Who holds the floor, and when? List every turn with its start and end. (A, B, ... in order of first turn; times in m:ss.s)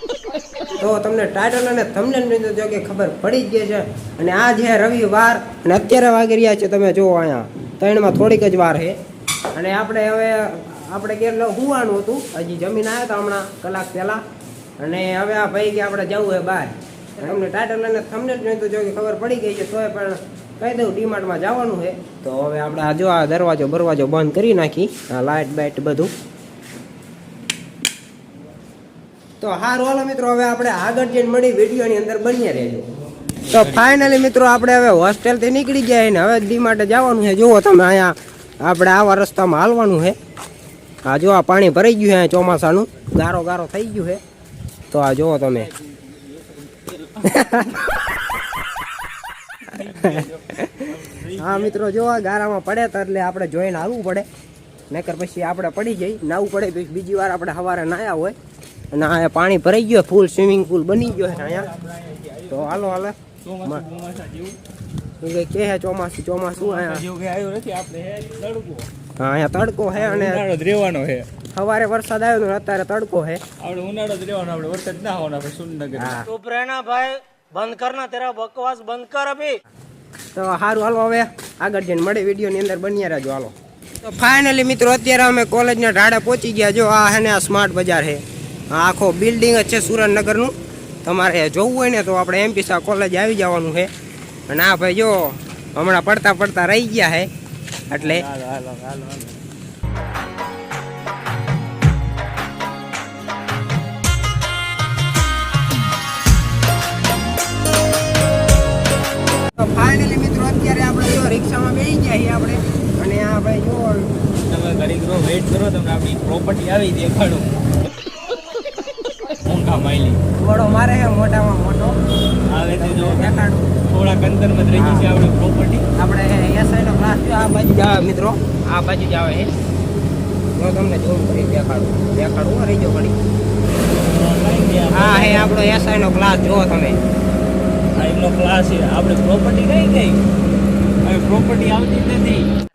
0:00.7-0:09.0 A
0:09.5-0:14.2 A
0:14.8-0:26.1 A
0:29.4-0:32.9 A
0:33.4-0:40.2 A
0:41.0-0:44.2 A
0:44.9-0:45.7 A
0:46.1-0:47.2 B
0:47.2-0:47.9 A
0:49.6-0:51.8 B
0:50.0-0:54.3 A
0:54.9-0:58.3 A
0:58.9-1:01.7 A
1:01.2-1:04.6 B
1:02.5-1:03.8 A
1:05.2-1:07.0 A
1:06.6-1:08.9 B
1:09.2-1:10.4 A
1:10.0-1:11.3 B
1:11.5-1:13.4 A
1:13.6-1:17.1 B
1:16.0-1:16.2 A
1:16.7-1:19.4 C
1:17.9-1:18.1 B
1:20.3-1:30.5 A
1:31.0-1:33.9 A
1:34.5-1:37.3 A
1:37.9-1:38.2 A
1:37.9-1:39.4 B
1:49.6-1:54.1 A
1:54.4-1:57.6 B
1:59.4-2:00.2 B
2:00.4-2:02.0 A
2:02.5-2:03.4 B
2:02.7-2:03.7 A
2:03.9-2:05.8 B
2:04.7-2:05.1 A
2:06.0-2:09.5 A
2:10.6-2:13.2 A
2:13.9-2:15.6 B
2:14.9-2:17.0 A
2:18.0-2:20.2 B
2:21.0-2:22.5 B